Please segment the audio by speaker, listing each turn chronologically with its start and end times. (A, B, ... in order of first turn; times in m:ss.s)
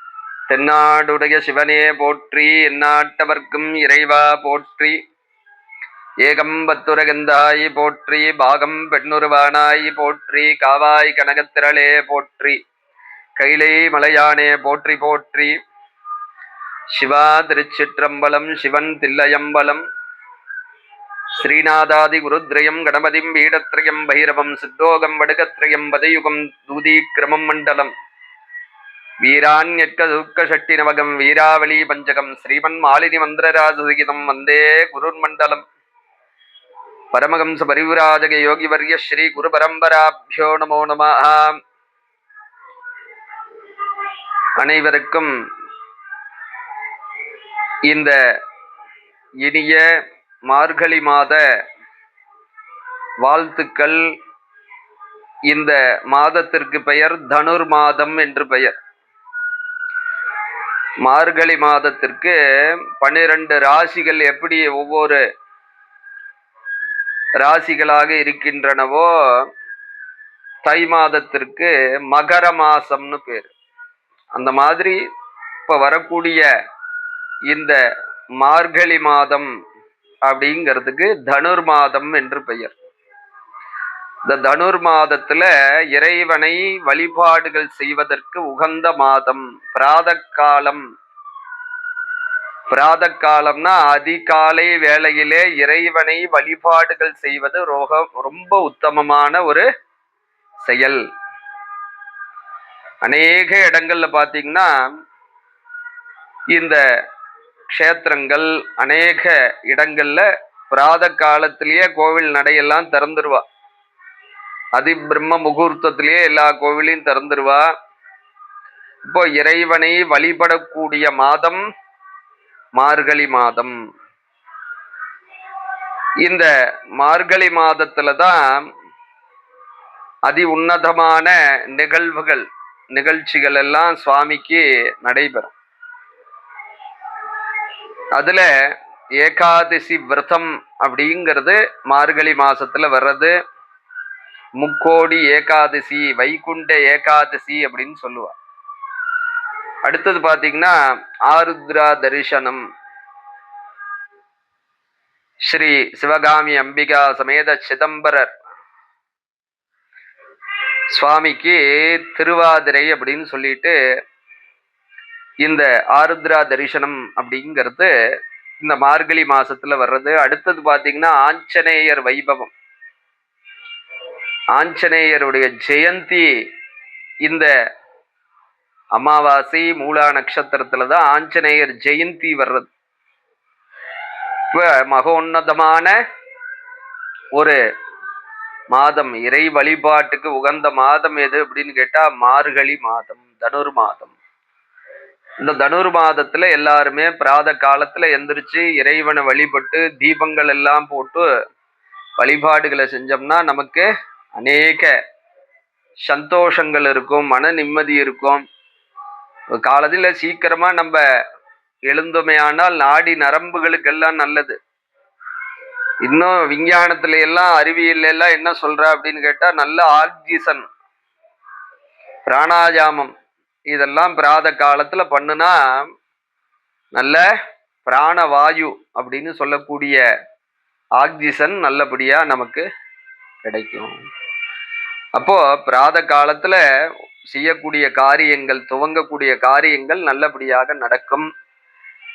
0:00.5-0:05.0 A
0:06.2-0:12.6 A
0:13.4-0:15.6 A
0:16.9-0:19.8 A
0:21.4-0:27.9 A
0:29.2-0:35.6 A
0:37.1-0:41.6 A
0:44.6-0:45.3 A
0:47.9-0:48.2 A
0:49.4-0:49.8 A
0:50.5-0:51.4 A
0:53.2-0:54.0 A
0:55.5-0:58.8 A
1:01.0-1:02.4 A
1:03.0-1:05.2 A
1:07.4-1:09.1 A
1:10.6-1:13.5 A
1:14.4-1:15.0 A
1:15.7-1:16.4 A
1:17.5-1:17.8 A
1:18.4-1:19.5 A
1:20.3-1:22.8 A
1:24.3-1:30.8 A
1:32.7-1:39.6 A
1:40.6-1:41.0 A
1:43.0-1:44.9 A
1:46.5-1:46.8 A
1:47.7-1:53.4 A
1:54.8-1:57.7 A
1:59.1-2:01.6 A
2:02.8-2:03.8 A
2:06.2-2:06.5 A
2:07.0-2:08.5 A
2:10.3-2:15.5 A
2:18.1-2:18.5 A
2:19.2-2:23.3 A
2:24.6-2:28.4 A
2:29.8-2:30.8 A
2:31.3-2:32.6 A
2:35.4-2:38.3 A
2:40.9-2:43.8 A
2:45.4-2:47.9 A
2:48.6-2:52.5 A
2:54.6-2:56.3 A
2:59.0-3:02.7 A
3:04.5-3:05.9 A
3:08.7-3:14.2 A
3:15.4-3:21.3 A
3:22.2-3:24.9 A
3:26.1-3:28.4 A
3:29.6-3:31.0 A
3:31.9-3:34.6 A
3:36.0-3:40.6 A
3:42.3-3:43.1 A
3:43.7-3:45.9 A
3:47.0-3:47.2 A
3:47.9-3:50.0 A
3:51.0-3:52.6 A
3:53.4-3:53.9 A
3:55.2-3:56.6 A
3:57.3-4:01.3 A